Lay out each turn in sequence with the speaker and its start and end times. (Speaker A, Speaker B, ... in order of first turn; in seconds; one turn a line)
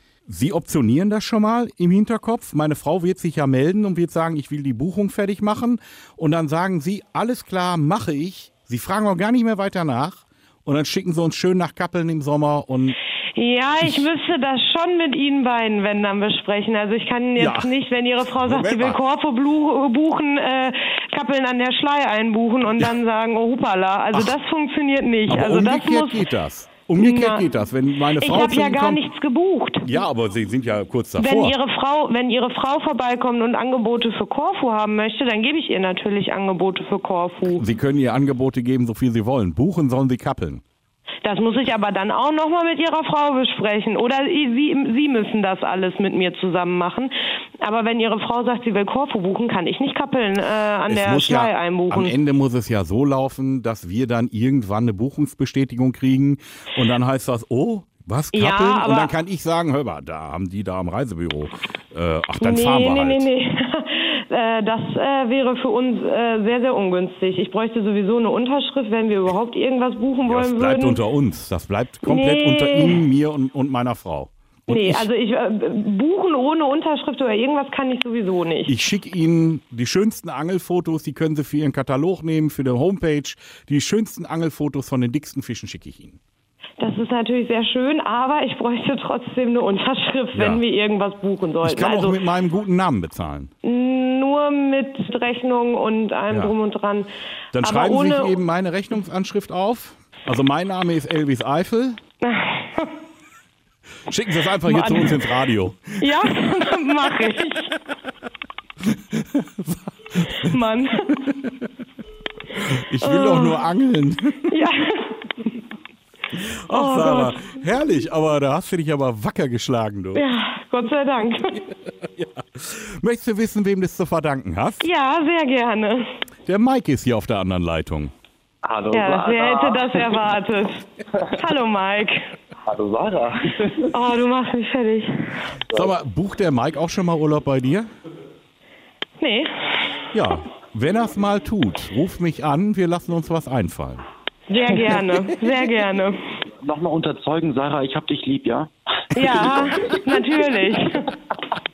Speaker A: 0.3-12.9
Speaker B: 13.3-26.2
Speaker A: 17.4-17.7
Speaker A: 18.3-19.0
Speaker A: 25.3-29.1
Speaker B: 26.9-27.4
Speaker B: 28.2-29.9
Speaker A: 29.8-31.6
Speaker B: 31.2-37.6
Speaker A: 37.5-40.6
Speaker B: 41.2-52.1
Speaker A: 50.9-63.3
Speaker B: 58.3-59.1
Speaker B: 62.4-71.0
Speaker A: 70.2-75.1
Speaker B: 72.0-73.0
Speaker B: 74.7-78.7
Speaker A: 78.7-86.2
Speaker B: 86.8-92.2
Speaker A: 90.3-90.6
Speaker A: 91.6-93.5
Speaker B: 93.6-98.4
Speaker A: 97.5-102.0
Speaker B: 102.2-102.9
Speaker A: 104.1-106.6
Speaker B: 104.6-105.2
Speaker B: 106.0-107.7
Speaker A: 108.9-111.5
Speaker B: 110.4-111.3
Speaker A: 112.5-114.6
Speaker B: 113.0-113.6
Speaker B: 114.5-115.3
Speaker A: 116.3-120.2
Speaker B: 116.7-117.5
Speaker B: 120.1-121.6
Speaker A: 121.9-124.9
Speaker B: 124.8-126.0
Speaker A: 126.5-128.1
Speaker C: 128.6-130.3
Speaker B: 128.9-132.3
Speaker C: 132.7-133.9
Speaker B: 133.9-135.4
Speaker A: 135.7-137.9
Speaker B: 139.2-139.5
Speaker A: 140.1-144.0
Speaker B: 144.5-146.4
Speaker C: 146.6-150.0
Speaker B: 149.1-151.1